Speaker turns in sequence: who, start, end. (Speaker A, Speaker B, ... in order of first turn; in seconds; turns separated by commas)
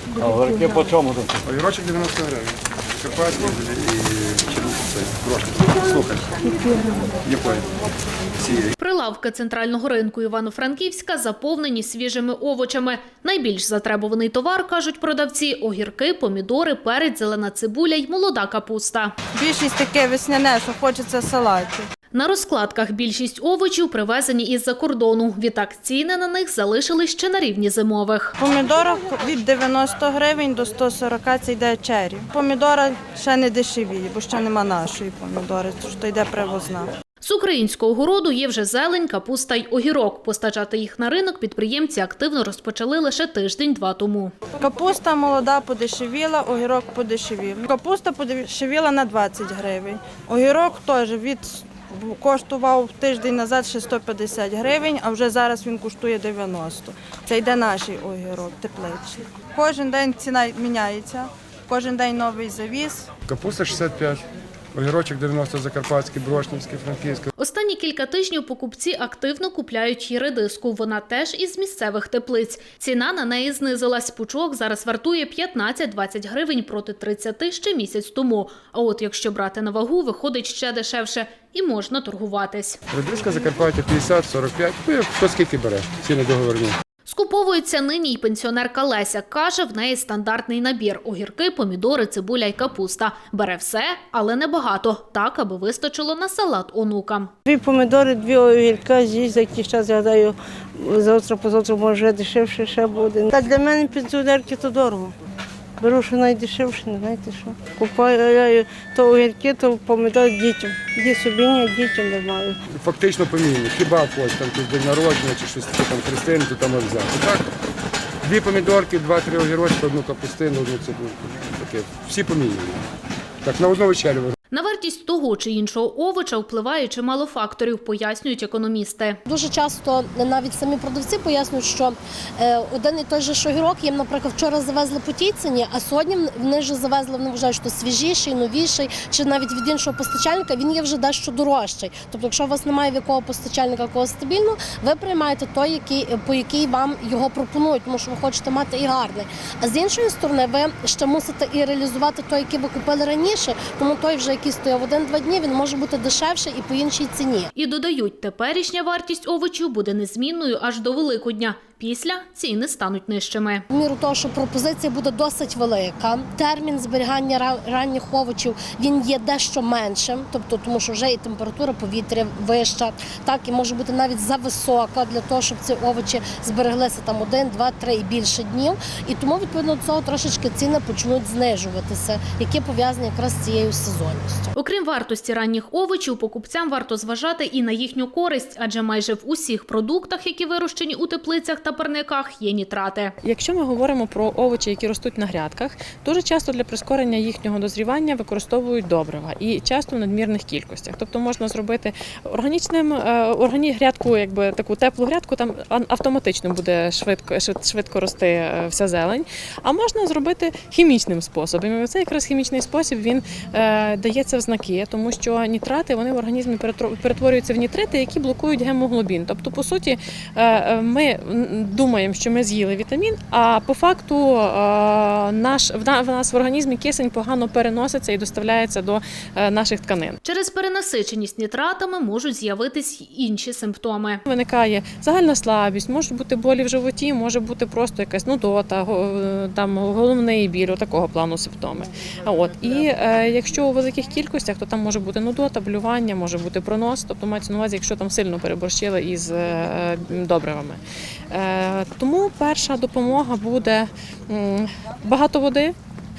Speaker A: 0.2-6.4, Speaker B: 6.6-7.0, Speaker A: 7.2-7.8, Speaker A: 8.3-8.7, Speaker C: 8.8-19.2, Speaker D: 19.3-21.9, Speaker C: 22.1-28.4, Speaker D: 28.4-36.9, Speaker C: 37.2-44.3, Speaker D: 44.6-63.1, Speaker A: 63.3-67.3, Speaker C: 67.4-82.8, Speaker A: 82.9-86.8, Speaker C: 87.1-97.3, Speaker B: 97.5-105.1, Speaker B: 105.8-112.6, Speaker A: 112.7-117.5, Speaker A: 118.2-122.8, Speaker A: 123.4-124.4, Speaker C: 124.5-129.2, Speaker E: 129.3-157.5, Speaker C: 157.6-163.6, Speaker E: 163.7-184.5, Speaker C: 184.6-193.1, Speaker F: 193.2-230.2, Speaker C: 230.2-234.2, Speaker F: 234.3-255.8